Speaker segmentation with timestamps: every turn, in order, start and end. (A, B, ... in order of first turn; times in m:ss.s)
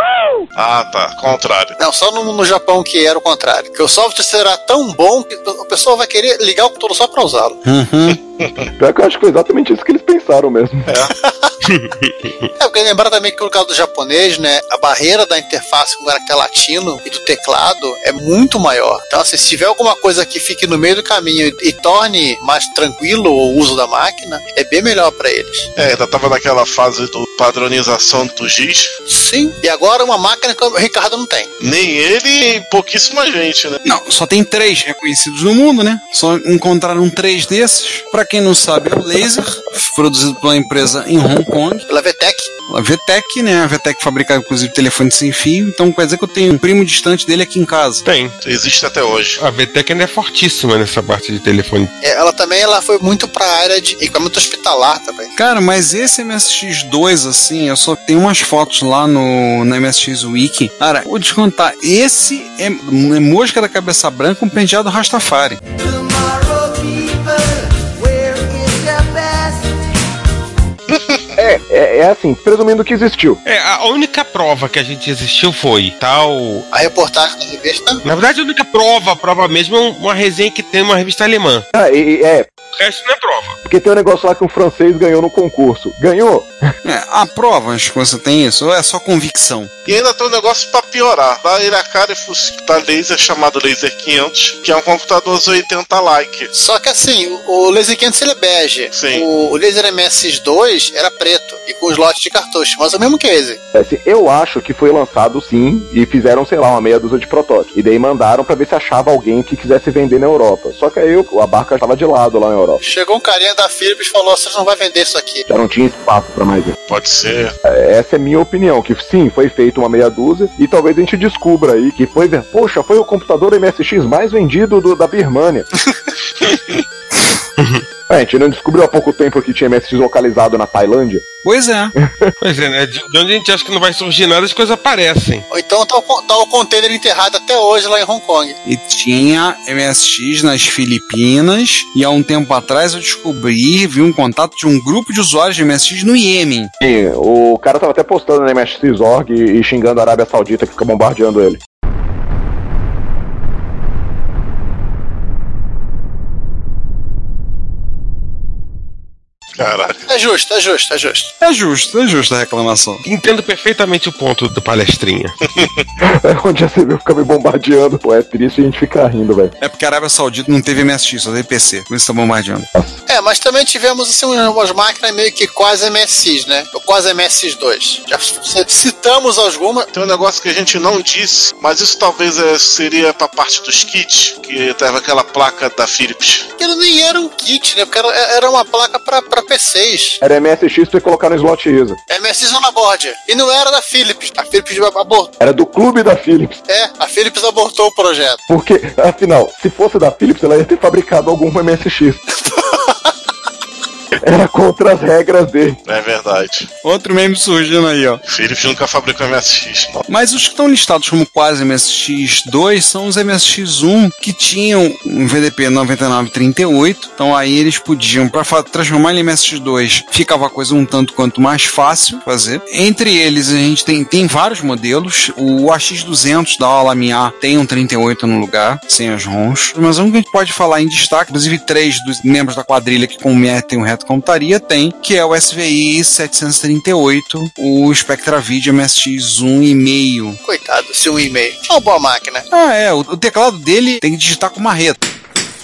0:00.6-0:01.7 A
0:01.8-0:07.6 B
0:07.6-0:08.2 C
0:08.4-0:08.7 A
0:08.8-0:10.9 D
0:10.9-0:11.1 A
0:11.2-0:11.5 B
0:11.6-0:12.5 E
0:12.6-0:25.6 B
0:25.8-0:28.9 A
0:29.1-0:31.5 B
0:31.6-0:33.8 A
0:33.8-0:41.8 C
0:41.9-0:42.5 B
0:42.7-0:48.0 C
0:48.0-0:48.3 E
0:48.4-0:49.4 A
0:49.4-0:51.9 E
0:52.0-0:55.3 B
0:55.3-1:05.6 C
1:10.9-1:11.2 A
1:11.4-1:13.4 D
1:13.4-1:16.7 E
1:16.7-1:18.0 B
1:18.0-1:21.6 E
1:21.7-1:22.5 D
1:22.8-1:23.6 E
1:23.6-1:26.5 D
1:26.8-1:29.7 C
1:29.8-1:36.5 A
1:36.5-1:43.6 B
1:38.9-1:39.2 A
1:43.7-1:52.8 D
1:52.8-1:55.4 B
1:55.5-1:56.8 D
1:56.9-1:57.5 A
1:57.6-2:05.6 D
2:07.6-2:07.8 E
2:08.1-2:11.2 D
2:11.4-2:11.9 C
2:12.0-2:12.3 D
2:12.4-2:15.4 E
2:15.5-2:18.6 B
2:18.6-2:26.7 C
2:26.8-2:31.6 D
2:39.6-2:40.0 A
2:40.1-2:41.3 B
2:41.4-2:43.0 C
2:43.0-2:45.3 E
2:45.5-2:45.8 A
2:46.0-2:49.5 D
2:49.6-2:52.7 C
2:53.1-2:59.9 B
2:59.9-3:06.5 A
3:06.6-3:10.2 B
3:10.2-3:12.0 D
3:12.1-3:15.3 B
3:15.4-3:16.6 D
3:16.7-3:18.4 B
3:18.5-3:22.2 D
3:22.4-3:23.1 B
3:24.2-3:25.8 D
3:25.8-3:26.7 A
3:26.8-3:28.2 C
3:28.2-3:30.0 A
3:30.1-4:00.4 C
4:00.4-4:02.4 B
4:02.5-4:05.0 C